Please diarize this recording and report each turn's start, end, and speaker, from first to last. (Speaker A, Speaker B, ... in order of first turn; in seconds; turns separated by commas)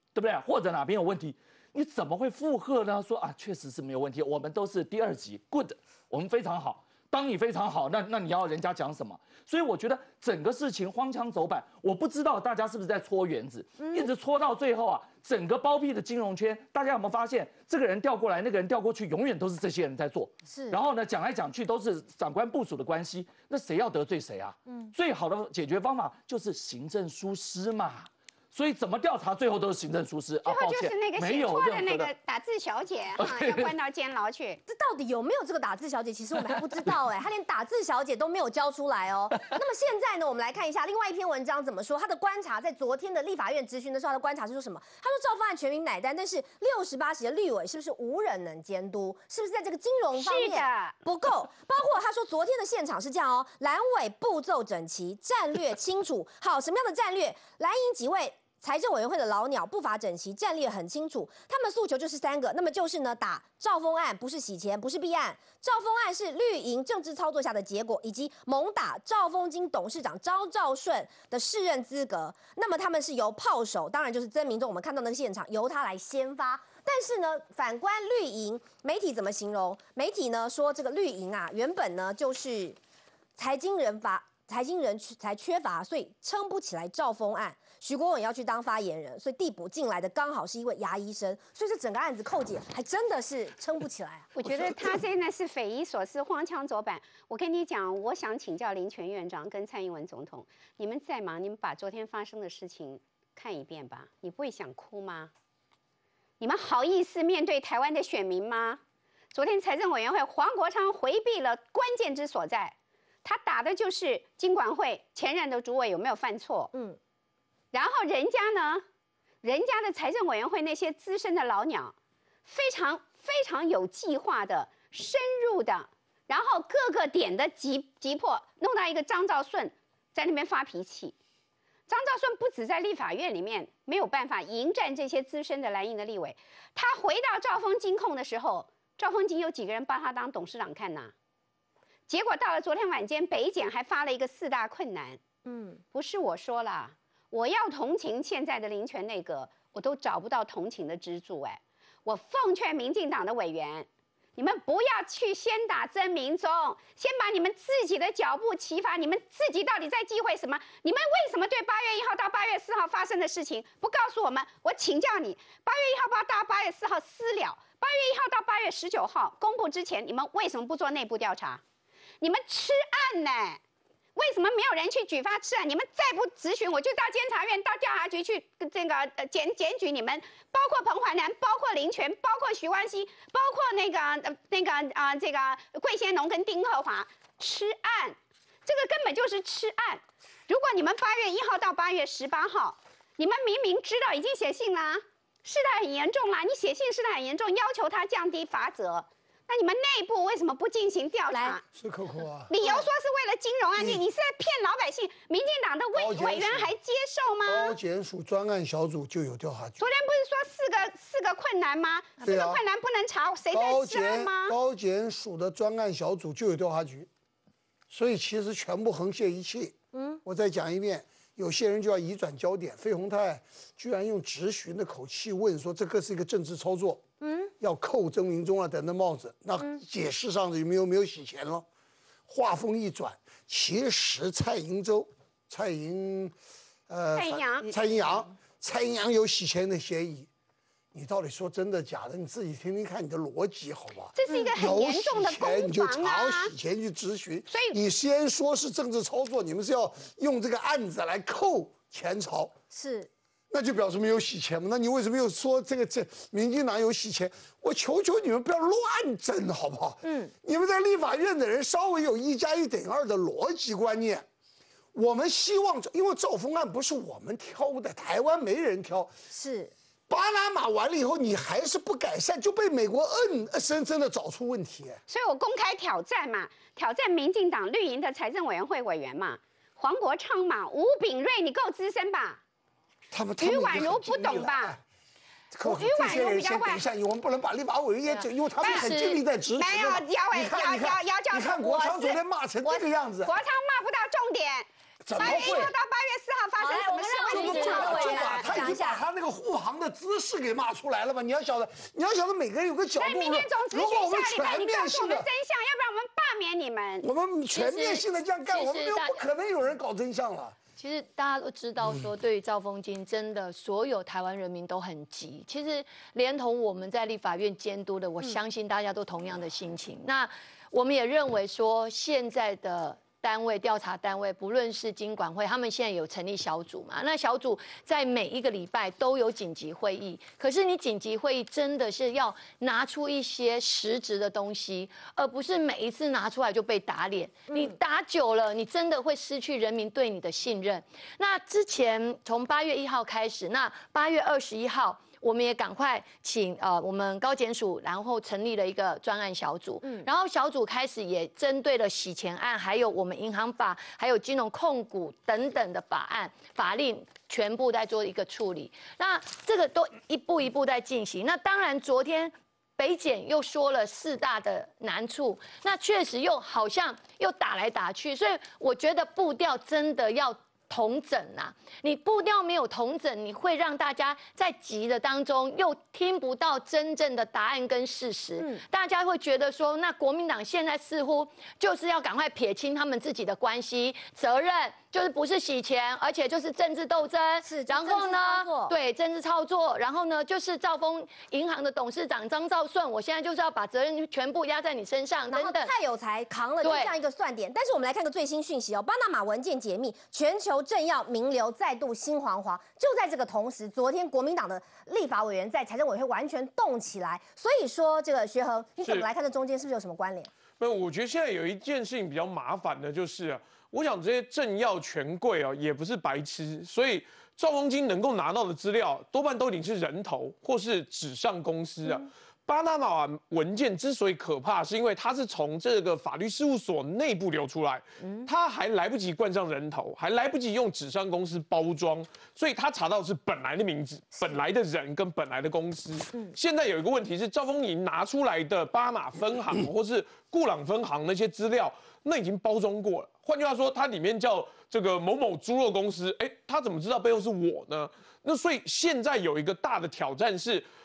Speaker A: 0.1-32.1, Speaker B: 13.8-14.1, Speaker B: 20.5-20.8, Speaker B: 24.7-24.9, Speaker C: 30.4-34.6, Speaker A: 33.2-33.8, Speaker B: 34.7-82.8, Speaker C: 50.1-51.0, Speaker B: 83.4-94.3, Speaker C: 94.3-105.3, Speaker C: 106.4-108.8, Speaker C: 109.3-116.7, Speaker B: 116.7-117.0, Speaker C: 117.7-118.8, Speaker C: 119.4-122.0, Speaker C: 122.5-131.2, Speaker C: 131.9-141.1, Speaker C: 142.1-145.2, Speaker B: 145.4-145.8, Speaker C: 145.9-171.6, Speaker C: 172.2-173.6, Speaker C: 174.2-201.6, Speaker B: 201.3-201.6, Speaker D: 201.7-202.6, Speaker C: 202.5-207.8, Speaker D: 203.8-204.0, Speaker D: 205.9-206.7, Speaker D: 207.4-209.8, Speaker C: 209.8-214.5, Speaker D: 212.2-212.6, Speaker D: 213.5-217.1, Speaker D: 217.9-227.0, Speaker B: 219.9-220.2, Speaker B: 227.2-227.5, Speaker D: 227.6-231.7, Speaker D: 232.3-236.3, Speaker D: 236.9-240.3, Speaker C: 237.2-237.7, Speaker D: 240.9-252.5, Speaker C: 244.2-246.5, Speaker B: 244.3-244.5, Speaker C: 247.5-247.8, Speaker B: 252.7-253.1, Speaker D: 253.5-264.2, Speaker B: 260.0-260.3, Speaker D: 264.9-269.1, Speaker B: 269.3-269.7, Speaker D: 270.1-275.0, Speaker C: 275.1-282.4, Speaker D: 283.1-284.8, Speaker C: 283.4-284.7, Speaker D: 285.5-293.4, Speaker C: 285.6-286.8, Speaker E: 288.1-289.2, Speaker C: 288.6-288.9, Speaker C: 289.6-298.7, Speaker D: 295.0-295.8, Speaker B: 296.6-299.0, Speaker D: 297.3-305.3, Speaker E: 297.4-297.9, Speaker C: 302.9-307.1, Speaker D: 307.0-310.6, Speaker E: 307.5-309.2, Speaker E: 310.8-395.7, Speaker B: 337.5-337.8, Speaker B: 387.4-388.7, Speaker B: 395.3-410.3, Speaker E: 396.6-396.9, Speaker F: 408.8-409.1, Speaker F: 410.6-450.7, Speaker B: 428.0-428.3